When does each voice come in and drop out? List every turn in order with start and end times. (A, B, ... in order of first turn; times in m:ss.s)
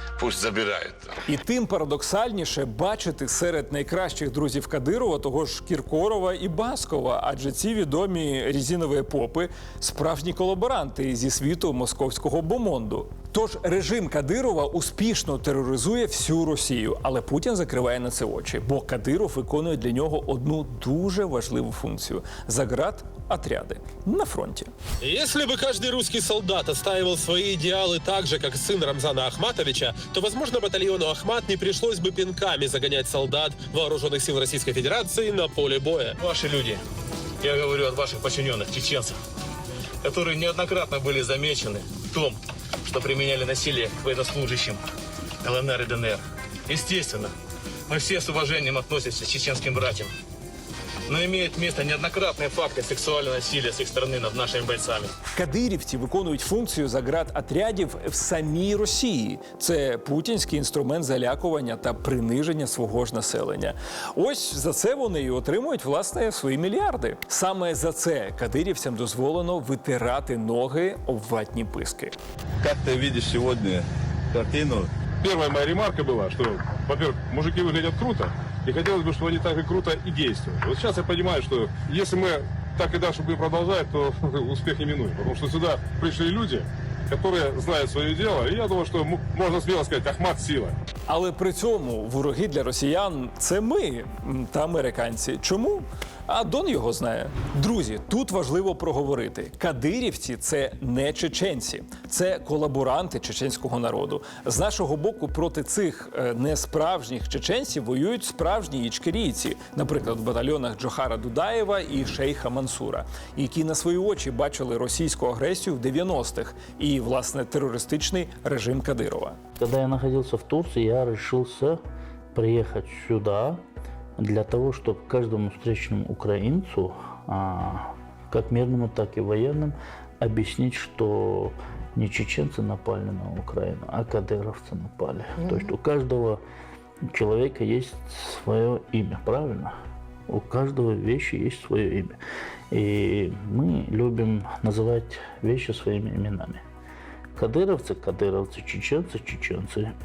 0:01.3-0:24.7 A
0:25.0-0:36.2 B
0:36.2-0:36.8 C
0:37.4-0:39.2 C
0:40.0-0:44.8 C
0:45.4-0:47.3 C
0:47.9-0:50.1 C
0:51.1-0:55.1 C
0:55.3-1:12.2 A
1:12.6-1:14.9 D
1:15.2-1:30.8 E
1:31.1-1:59.4 A
1:59.6-2:01.8 F
2:02.3-2:03.6 F
2:04.2-2:16.4 F
2:17.1-2:19.7 F
2:20.3-2:22.2 F
2:22.7-2:26.6 F
2:27.4-2:29.9 F